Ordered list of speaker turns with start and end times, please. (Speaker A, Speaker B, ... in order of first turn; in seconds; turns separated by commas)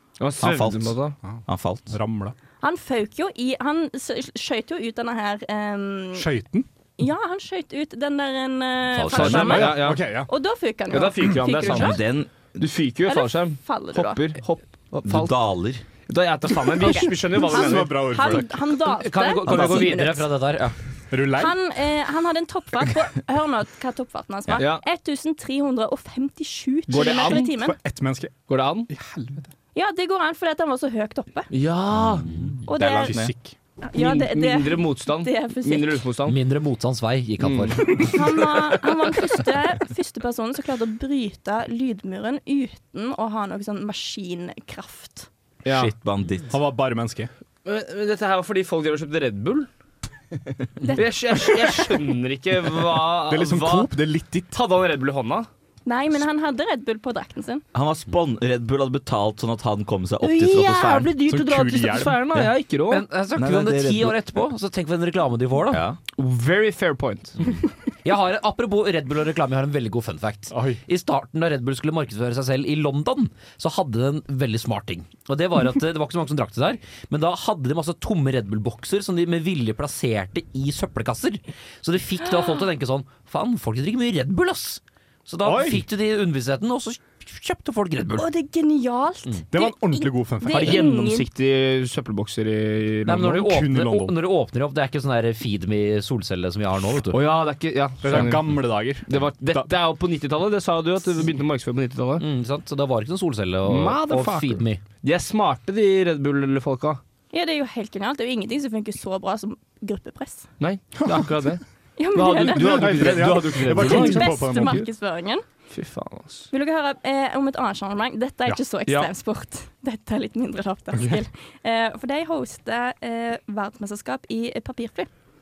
Speaker A: 0.2-1.1, Speaker B: 0.4-1.9, Speaker C: 1.2-2.3, Speaker D: 2.6-6.3, Speaker C: 6.1-6.7, Speaker D: 7.0-12.0, Speaker E: 8.9-9.7, Speaker A: 9.1-10.0, Speaker C: 9.1-10.3, Speaker A: 10.9-12.0, Speaker B: 11.7-12.6, Speaker A: 12.6-15.3, Speaker D: 13.0-14.3, Speaker B: 15.1-15.8, Speaker A: 16.1-18.1, Speaker D: 16.7-20.3, Speaker C: 17.5-18.5, Speaker E: 19.1-20.7, Speaker C: 21.1-21.6, Speaker D: 21.3-27.8, Speaker A: 24.6-24.8, Speaker A: 26.9-27.5, Speaker C: 26.9-29.5, Speaker A: 28.5-28.9, Speaker D: 29.7-31.5, Speaker A: 31.5-32.2, Speaker B: 32.2-33.3, Speaker D: 32.7-33.2, Speaker C: 32.8-33.5, Speaker D: 33.8-36.1, Speaker A: 33.9-36.4, Speaker E: 36.3-37.9, Speaker A: 37.4-38.3, Speaker D: 38.0-45.3, Speaker A: 45.6-45.9, Speaker B: 45.6-46.5, Speaker C: 46.5-47.3, Speaker A: 47.6-49.7, Speaker A: 50.9-53.9, Speaker C: 53.2-54.5, Speaker A: 54.5-55.5, Speaker D: 55.8-57.6, Speaker B: 57.7-61.1, Speaker A: 60.2-63.0, Speaker C: 61.2-62.5, Speaker E: 62.9-65.8, Speaker B: 63.4-64.2, Speaker B: 65.7-66.0, Speaker A: 66.2-67.3, Speaker E: 68.0-88.3, Speaker C: 70.5-70.8, Speaker C: 85.4-85.8, Speaker D: 88.1-91.3, Speaker C: 89.5-90.8, Speaker A: 90.5-93.4, Speaker E: 93.0-97.2, Speaker C: 93.3-94.2, Speaker A: 97.1-102.2, Speaker C: 98.0-99.7, Speaker E: 102.2-104.8, Speaker A: 103.7-107.0, Speaker D: 107.3-110.5, Speaker A: 110.6-111.6, Speaker D: 112.0-115.4, Speaker A: 112.1-114.8, Speaker C: 112.5-114.8, Speaker A: 115.7-116.5, Speaker D: 116.5-125.1